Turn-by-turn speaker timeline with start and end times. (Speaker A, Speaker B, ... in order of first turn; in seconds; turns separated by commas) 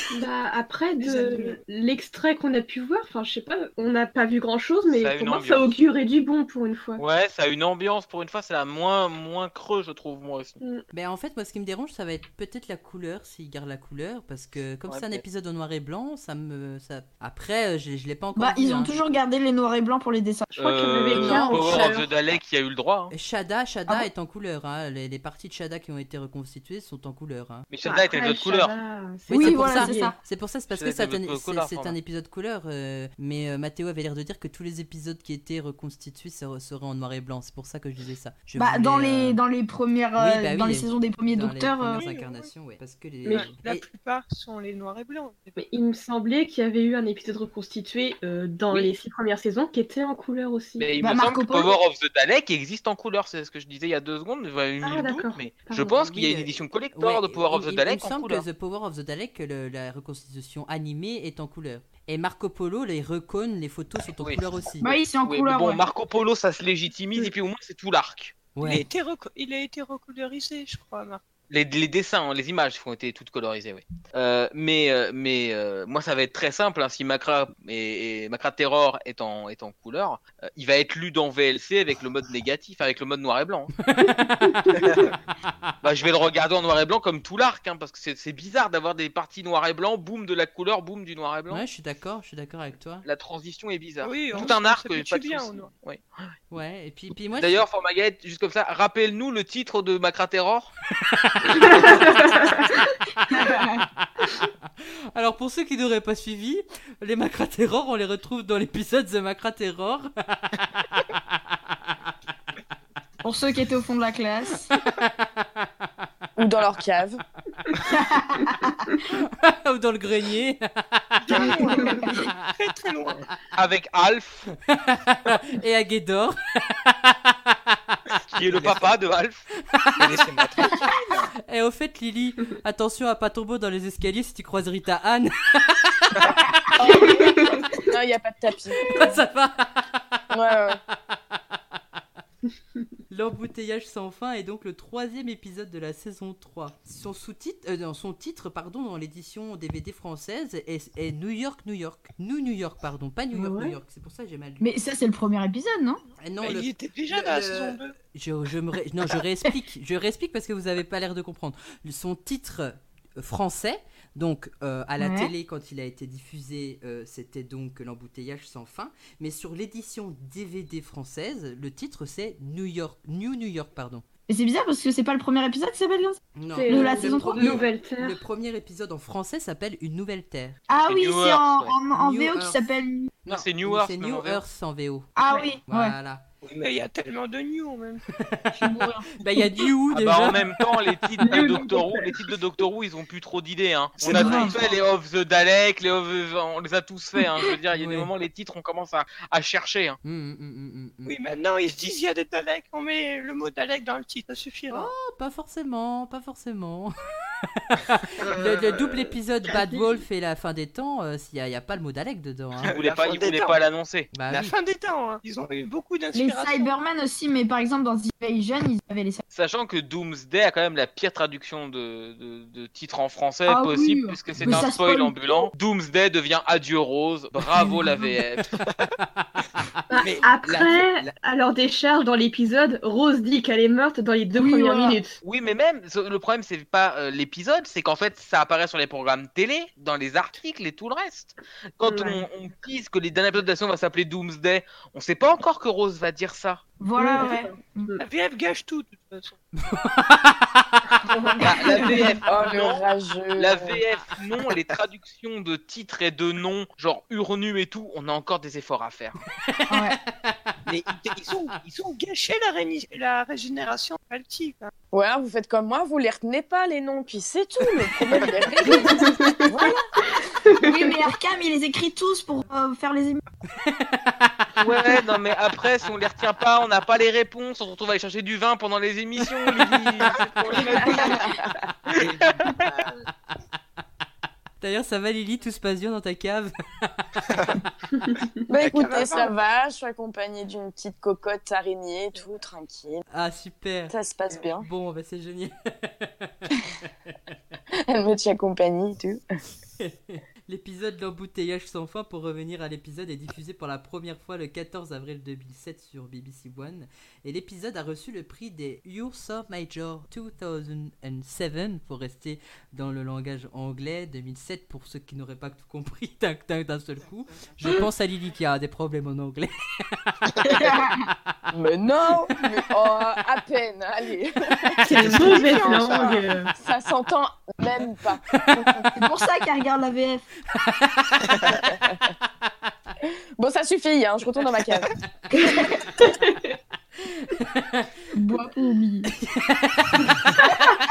Speaker A: 0.1-7.0, Speaker B: 1.0-1.6, Speaker C: 4.9-5.7, Speaker C: 7.0-10.6, Speaker D: 10.9-18.9, Speaker C: 14.9-15.2, Speaker E: 18.4-20.5, Speaker A: 20.5-22.1, Speaker C: 20.6-23.1, Speaker D: 21.1-22.0, Speaker D: 23.1-27.7, Speaker C: 27.7-28.7, Speaker A: 27.8-30.1, Speaker D: 29.3-39.4, Speaker E: 29.3-30.1, Speaker C: 30.7-31.9, Speaker E: 38.5-42.0, Speaker D: 40.2-43.8, Speaker B: 41.9-42.5, Speaker A: 43.2-43.6, Speaker B: 43.3-45.6, Speaker A: 45.6-50.9, Speaker C: 50.8-58.4, Speaker E: 51.0-51.8, Speaker A: 54.8-56.1, Speaker D: 56.1-65.0, Speaker E: 64.8-65.8, Speaker C: 65.2-68.4, Speaker D: 68.5-68.8, Speaker B: 68.6-71.2, Speaker C: 71.5-83.7, Speaker D: 83.8-84.8, Speaker C: 85.8-91.6, Speaker D: 91.5-93.0, Speaker C: 93.0-96.0, Speaker B: 94.0-95.7, Speaker D: 96.5-97.6, Speaker C: 97.4-100.7, Speaker D: 101.0-101.9, Speaker A: 101.5-102.7, Speaker E: 103.3-103.8, Speaker D: 105.1-110.6, Speaker D: 111.1-111.7, Speaker E: 113.2-114.7, Speaker D: 114.8-115.6, Speaker F: 116.3-117.2, Speaker E: 117.8-118.8, Speaker D: 119.1-121.6, Speaker B: 121.2-123.2, Speaker C: 123.5-124.5, Speaker D: 124.7-127.8, Speaker C: 128.3-129.4, Speaker D: 129.7-130.1, Speaker B: 130.0-131.2, Speaker D: 131.4-137.0, Speaker F: 136.8-139.0, Speaker A: 137.0-137.8, Speaker D: 138.8-141.2, Speaker F: 140.3-140.8, Speaker D: 143.1-154.7, Speaker A: 153.3-153.8, Speaker E: 154.6-156.0, Speaker D: 156.2-174.0, Speaker B: 156.4-157.9, Speaker E: 165.0-165.3, Speaker E: 174.3-177.6, Speaker D: 176.3-180.6, Speaker A: 176.5-178.2, Speaker E: 180.7-183.1, Speaker C: 180.9-181.7, Speaker D: 181.9-182.7, Speaker D: 183.2-186.2, Speaker C: 183.3-184.4, Speaker E: 185.2-185.9, Speaker B: 186.4-188.0, Speaker D: 188.2-190.5, Speaker E: 188.5-189.1, Speaker C: 189.9-200.0, Speaker A: 191.2-192.1, Speaker E: 194.1-194.6, Speaker D: 197.7-198.1, Speaker D: 200.0-201.2, Speaker B: 201.0-204.9, Speaker D: 204.7-212.7, Speaker C: 212.6-214.1, Speaker B: 212.6-213.6, Speaker D: 214.1-214.5, Speaker B: 214.3-216.7, Speaker E: 216.1-219.2, Speaker C: 219.3-228.6, Speaker E: 223.5-225.5, Speaker D: 224.4-224.6, Speaker A: 229.9-235.2, Speaker B: 230.0-230.7, Speaker E: 234.3-235.0, Speaker C: 235.2-246.6, Speaker A: 241.8-242.2, Speaker E: 246.8-247.9, Speaker A: 247.0-248.0, Speaker B: 248.0-249.4, Speaker D: 249.6-250.8, Speaker A: 251.1-252.1, Speaker C: 251.4-259.1, Speaker F: 252.2-253.8, Speaker D: 259.5-260.4, Speaker E: 259.7-260.0, Speaker B: 260.7-264.7, Speaker F: 264.9-269.9, Speaker A: 268.8-269.5, Speaker A: 270.4-270.9, Speaker E: 270.6-273.2, Speaker D: 273.6-274.6, Speaker C: 274.6-281.0, Speaker D: 279.6-280.1, Speaker F: 280.6-281.5, Speaker E: 280.6-281.2, Speaker B: 282.6-282.9, Speaker D: 284.6-287.1, Speaker A: 288.0-288.3, Speaker F: 288.5-293.0, Speaker B: 288.6-289.3, Speaker D: 293.1-293.9, Speaker F: 293.9-294.7, Speaker D: 294.6-296.5, Speaker F: 297.8-299.2, Speaker D: 299.8-320.2, Speaker E: 320.4-321.1, Speaker F: 321.5-328.9, Speaker A: 324.8-326.5, Speaker B: 325.0-326.1, Speaker E: 328.9-330.3, Speaker D: 330.5-331.4, Speaker F: 331.4-332.0, Speaker F: 333.4-334.9, Speaker E: 335.4-335.6, Speaker A: 336.0-336.5, Speaker D: 337.0-337.9, Speaker E: 338.1-339.1, Speaker D: 339.2-340.4